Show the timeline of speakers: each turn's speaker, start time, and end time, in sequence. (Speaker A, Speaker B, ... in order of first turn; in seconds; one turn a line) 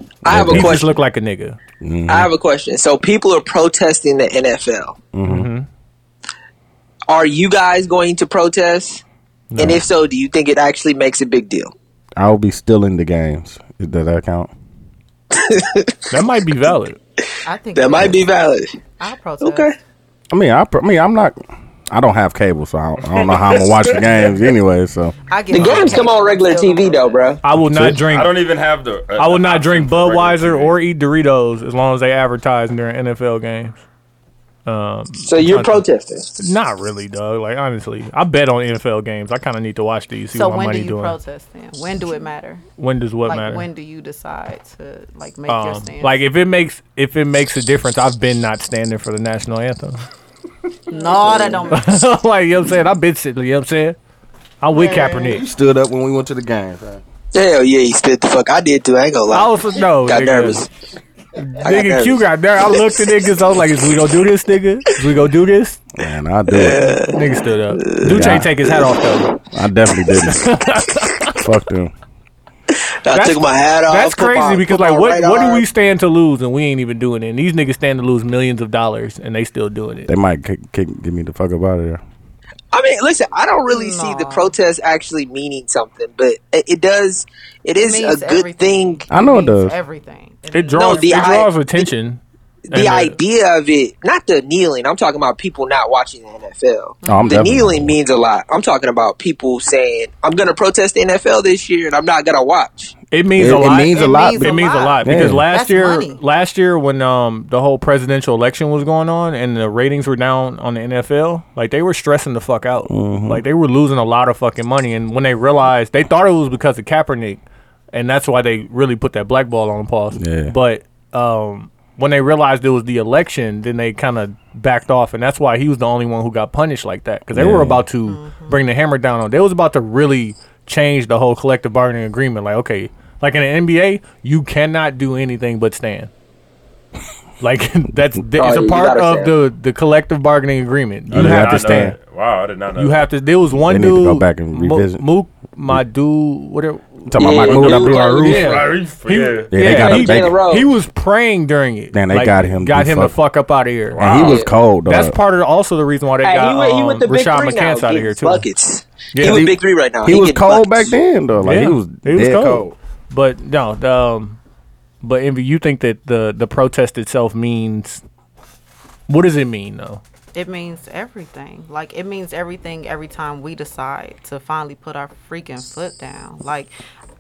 Speaker A: 0.2-1.0
Speaker B: 0.3-0.9
Speaker C: 0.5-1.6
Speaker B: 1.8-2.3
Speaker A: 2.1-5.0
Speaker B: 5.1-5.5
Speaker C: 5.2-5.7
Speaker A: 7.1-9.0
Speaker C: 9.5-9.8
Speaker A: 9.6-11.7
Speaker B: 12.2-14.5
Speaker A: 15.3-16.1
Speaker C: 16.1-17.0
Speaker D: 17.4-18.2
Speaker A: 17.8-18.7
Speaker D: 19.0-19.7
Speaker A: 19.4-19.8
Speaker B: 20.3-25.1
Speaker E: 23.1-24.0
Speaker D: 25.3-27.4
Speaker A: 25.5-27.4
Speaker C: 27.4-28.4
Speaker B: 27.6-28.0
Speaker E: 27.9-30.8
Speaker C: 29.2-33.8
Speaker C: 34.7-35.8
Speaker A: 35.2-36.3
Speaker C: 36.4-41.2
Speaker D: 40.3-42.6
Speaker C: 42.8-43.7
Speaker D: 43.2-46.2
Speaker C: 45.5-50.0
Speaker D: 50.9-52.0
Speaker A: 51.1-51.7
Speaker C: 51.7-54.0
Speaker C: 54.6-55.5
Speaker B: 54.7-57.0
Speaker A: 57.3-60.7
Speaker C: 59.3-60.6
Speaker C: 61.4-65.8
Speaker A: 61.6-62.8
Speaker B: 66.0-67.0
Speaker A: 66.5-67.2
Speaker C: 66.8-69.3
Speaker A: 67.8-68.8
Speaker B: 68.0-68.5
Speaker B: 69.5-70.5
Speaker C: 70.3-71.4
Speaker B: 71.3-71.9
Speaker A: 72.7-75.7
Speaker C: 73.1-80.1
Speaker B: 80.1-82.0
Speaker A: 82.7-89.0
Speaker D: 83.7-84.5
Speaker D: 87.8-91.5
Speaker B: 89.1-89.8
Speaker C: 90.5-93.2
Speaker A: 90.7-91.9
Speaker A: 92.7-102.9
Speaker D: 97.0-97.5
Speaker B: 97.0-98.0
Speaker C: 103.1-117.4
Speaker B: 103.4-105.5
Speaker D: 103.7-106.2
Speaker B: 112.9-113.5
Speaker C: 117.9-136.1
Speaker B: 120.1-120.5
Speaker B: 127.3-127.8
Speaker D: 128.1-128.6
Speaker C: 137.4-141.9
Speaker A: 138.4-139.3
Speaker B: 141.1-141.9
Speaker E: 141.1-143.1
Speaker C: 142.8-158.4
Speaker B: 143.6-145.1
Speaker B: 147.1-148.5
Speaker A: 147.2-148.6
Speaker E: 147.4-149.6
Speaker B: 149.5-150.4
Speaker A: 149.6-150.7
Speaker B: 151.9-153.2
Speaker B: 153.9-155.2
Speaker A: 154.2-154.5
Speaker A: 156.2-160.9
Speaker C: 159.1-159.4
Speaker B: 159.2-162.8
Speaker C: 161.4-164.4
Speaker C: 165.0-168.0
Speaker C: 169.1-170.0
Speaker D: 170.3-176.7